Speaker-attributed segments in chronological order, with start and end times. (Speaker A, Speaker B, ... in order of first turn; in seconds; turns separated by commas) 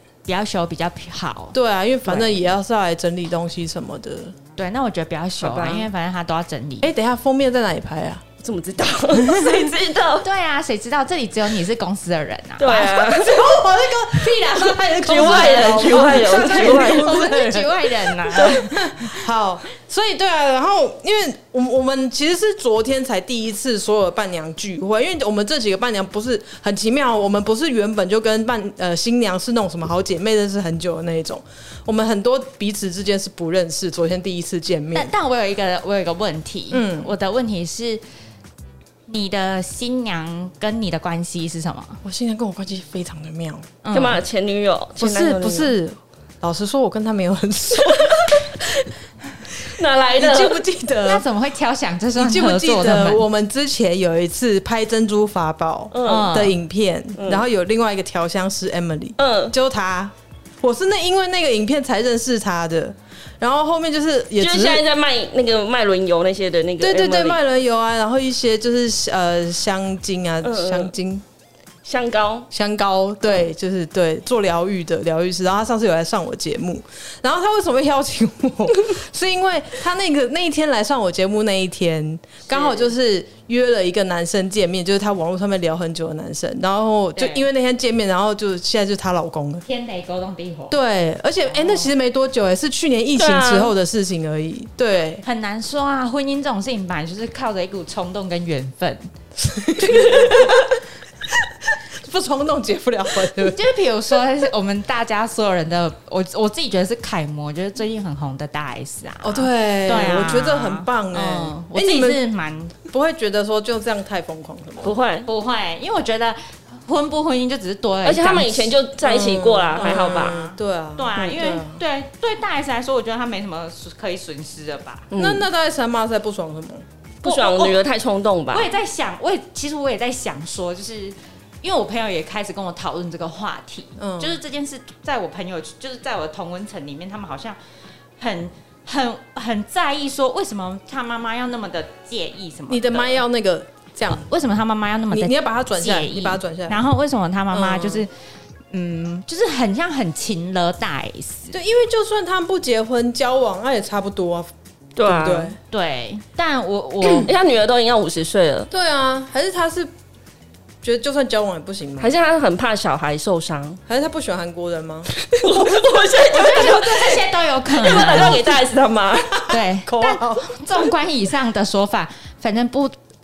Speaker A: 0.3-2.3, Speaker B: 1.5-4.3, Speaker A: 4.6-6.9, Speaker C: 5.4-5.9, Speaker B: 6.8-8.2, Speaker C: 8.4-10.2, Speaker B: 9.2-9.7, Speaker A: 10.2-13.0, Speaker C: 12.6-13.6, Speaker B: 12.8-35.1, Speaker C: 14.3-17.1, Speaker A: 15.1-19.1, Speaker A: 34.9-38.0, Speaker B: 36.7-37.1, Speaker A: 39.1-42.0, Speaker B: 42.0-43.7, Speaker A: 43.8-44.2, Speaker C: 43.9-45.7, Speaker B: 45.0-48.9, Speaker B: 49.6-51.2, Speaker C: 49.6-50.6, Speaker A: 51.0-53.2, Speaker B: 52.1-64.8, Speaker C: 55.9-56.4, Speaker A: 56.0-56.5, Speaker C: 57.2-57.5, Speaker C: 59.2-59.5, Speaker C: 64.4-67.4, Speaker B: 66.8-71.2, Speaker C: 70.4-70.9, Speaker C: 71.8-72.5, Speaker B: 72.5-89.6, Speaker C: 82.5-82.9, Speaker A: 87.1-87.5, Speaker A: 89.7-90.8, Speaker B: 90.7-95.2, Speaker A: 91.4-91.9, Speaker C: 93.2-93.7, Speaker A: 95.2-99.1, Speaker B: 99.4-103.6, Speaker A: 103.4-112.7, Speaker B: 109.2-112.2, Speaker B: 112.9-114.9, Speaker C: 114.8-115.3, Speaker A: 115.2-118.8, Speaker C: 118.0-120.3, Speaker B: 119.0-121.8, Speaker A: 119.7-125.1, Speaker C: 125.1-125.5, Speaker B: 125.1-126.8, Speaker C: 127.2-128.7, Speaker A: 127.2-127.8, Speaker A: 128.5-137.6, Speaker B: 134.0-134.4, Speaker A: 138.2-143.2, Speaker B: 142.7-144.3, Speaker A: 144.1-148.1, Speaker B: 145.1-146.8, Speaker B: 147.5-148.1, Speaker A: 148.7-151.6, Speaker B: 151.5-154.5, Speaker C: 155.0-155.5, Speaker B: 155.0-155.6, Speaker A: 155.7-157.3, Speaker C: 157.2-158.7, Speaker B: 158.7-159.9, Speaker B: 160.8-162.2, Speaker C: 162.0-163.8, Speaker B: 163.9-167.3, Speaker C: 165.2-167.1, Speaker A: 166.2-168.4, Speaker C: 167.8-169.4, Speaker B: 167.8-168.4, Speaker B: 169.3-170.9, Speaker A: 169.5-172.9